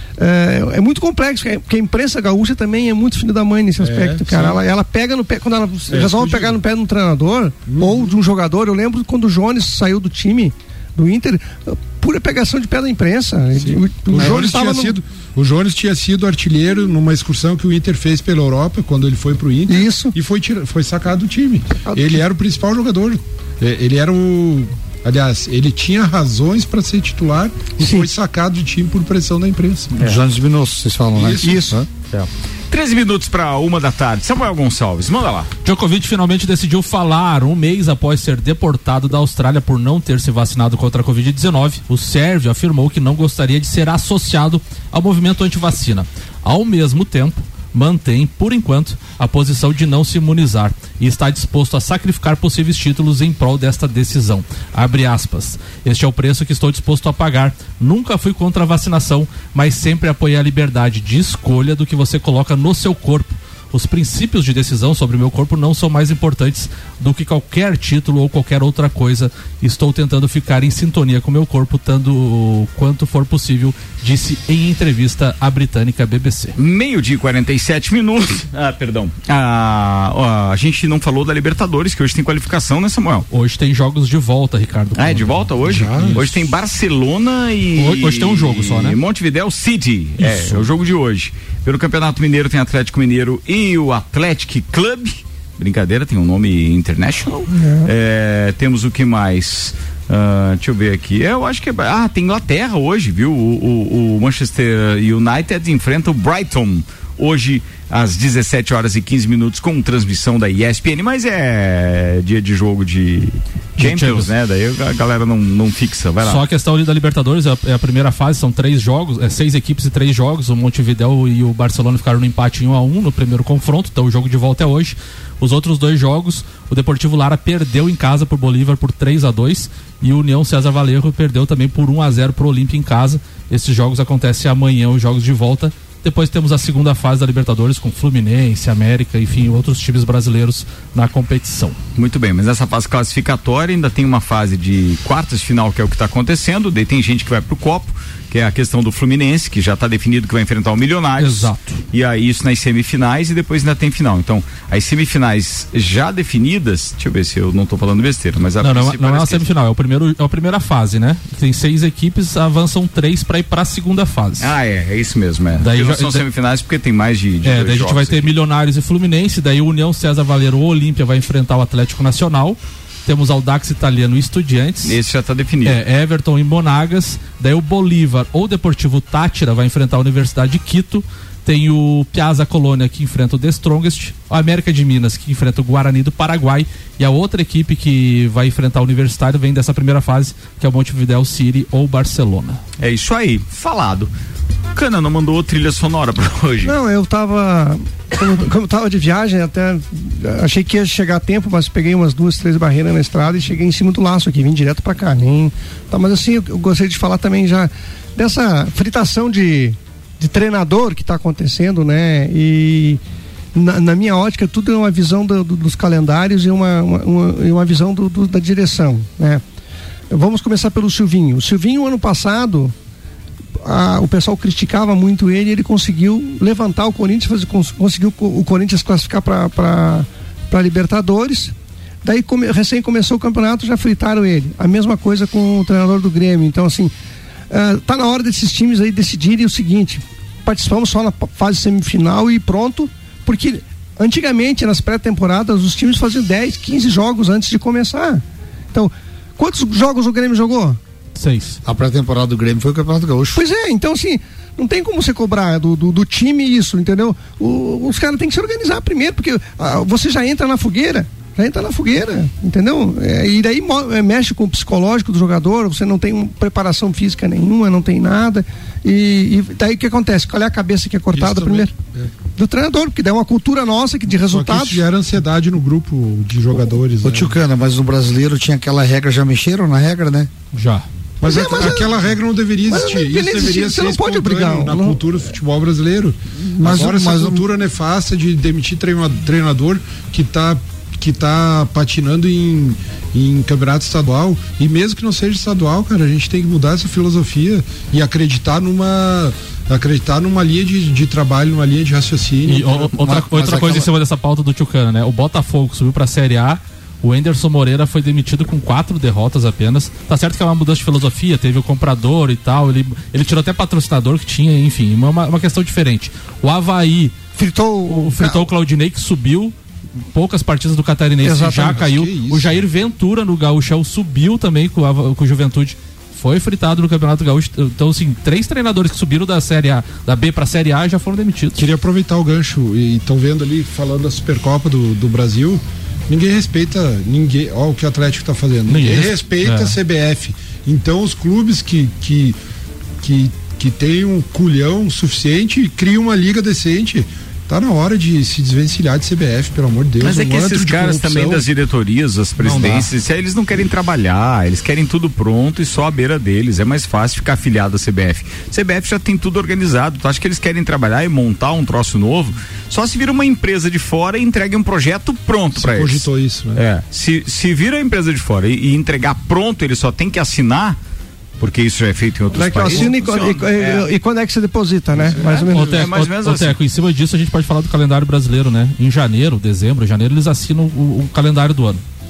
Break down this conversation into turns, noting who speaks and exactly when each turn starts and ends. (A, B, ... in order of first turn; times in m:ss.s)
0:00.2-0:15.0 A
0:03.8-0:04.6 B
0:05.9-0:06.6 B
0:07.6-0:08.1 B
0:13.6-0:30.1 B
0:19.7-0:20.1 A
0:21.9-0:22.2 A
0:27.8-0:28.1 A
0:30.0-0:31.8 C
0:31.2-0:31.8 B
0:31.4-0:31.7 A
0:32.1-0:35.5 D
0:35.6-1:16.6 E
1:16.6-1:23.3 D
1:23.3-1:26.3 E
1:25.0-1:56.4 D
1:25.6-1:26.3 B
1:27.8-1:29.0 E
1:30.2-1:30.6 E
1:37.5-1:37.9 A
1:53.8-1:54.3 E
1:56.2-2:21.8 E
2:22.0-2:39.4 D
2:31.2-2:31.8 E
2:38.6-2:44.5 E
2:44.4-2:48.3 D
2:45.6-2:46.2 E
2:47.4-2:54.9 E
2:54.8-2:55.8 D
2:55.6-3:12.6 E
3:12.8-3:14.1 D
3:14.7-3:16.7 D
3:16.6-3:33.0 A
3:33.5-3:39.4 A
3:40.1-3:42.7 A
3:43.6-3:56.9 A
3:57.5-4:10.8 A
4:11.2-4:11.6 E
4:11.6-4:13.4 C
4:13.3-4:31.7 A
4:31.1-4:32.1 B
4:32.3-4:34.8 A
4:34.3-4:37.3 B
4:37.0-4:40.3 C
4:40.5-4:40.9 E
4:41.2-5:02.9 B
4:41.2-4:42.0 A
4:42.7-4:45.0 A
4:46.5-4:47.4 C
5:02.5-5:17.2 E
5:02.9-5:03.9 C
5:17.4-5:18.4 A
5:17.9-5:19.5 E
5:20.1-5:31.6 E
5:21.2-5:21.7 A
5:21.5-5:22.6 B
5:31.6-5:42.4 B
5:38.7-5:39.8 E
5:43.0-5:51.5 B
5:50.0-6:10.8 D
5:52.4-5:52.9 B
6:05.5-6:06.6 B
6:11.4-6:13.9 D
6:12.3-6:15.8 A
6:14.9-6:15.5 B
6:15.1-6:16.6 D
6:15.5-6:21.8 E